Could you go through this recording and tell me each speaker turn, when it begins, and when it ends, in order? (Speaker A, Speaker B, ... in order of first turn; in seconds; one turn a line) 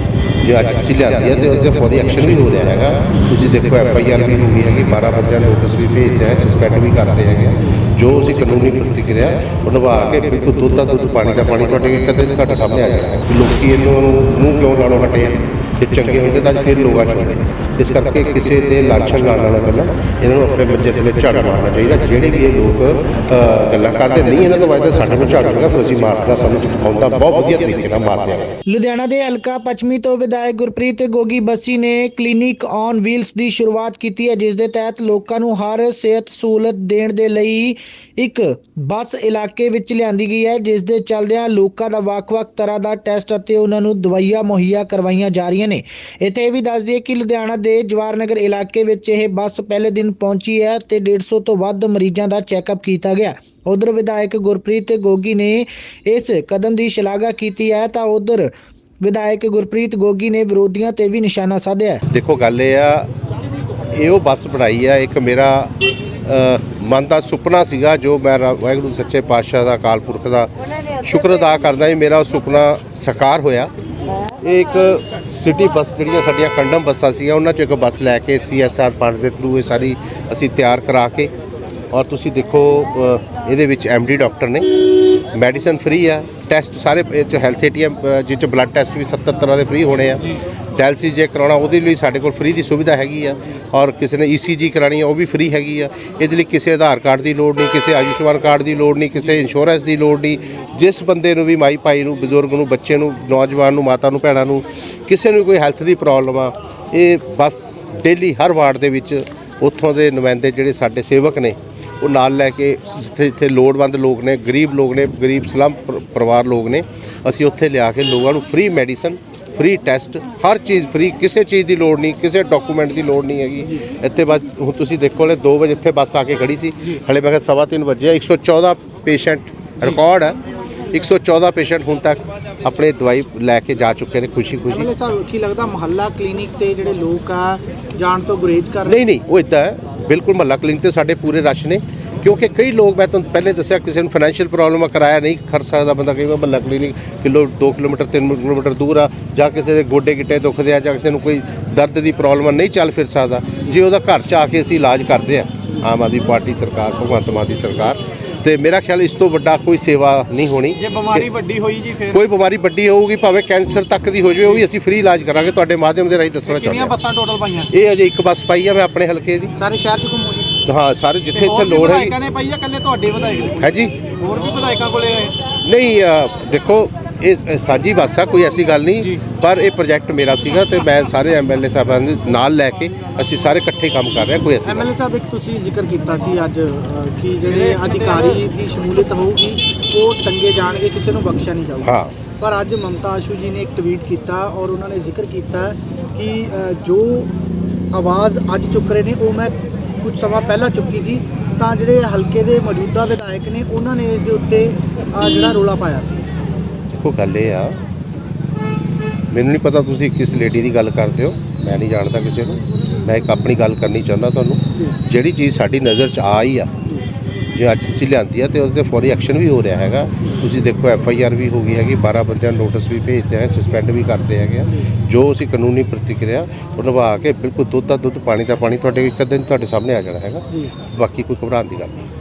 Speaker A: 0.4-28.5
Speaker B: 28.7-58.5
Speaker B: 59.0-62.0
Speaker A: 62.1-63.1
Speaker A: 63.9-65.7
Speaker A: 66.2-73.7
Speaker A: 74.4-81.3
Speaker A: 81.9-130.4
Speaker A: 130.9-134.9
Speaker C: 134.7-139.0
Speaker A: 138.8-161.3
Speaker C: 160.8-162.2
Speaker A: 162.0-166.9
Speaker C: 166.5-167.7
Speaker A: 167.7-169.5
Speaker C: 169.6-170.5
Speaker A: 170.6-172.2
Speaker C: 171.3-175.3
Speaker A: 173.6-173.9
Speaker A: 175.6-184.9
Speaker C: 184.6-197.3
Speaker A: 191.8-192.2
Speaker C: 197.9-206.3
Speaker A: 206.9-207.8
Speaker A: 209.3-216.7
Speaker A: 217.5-232.1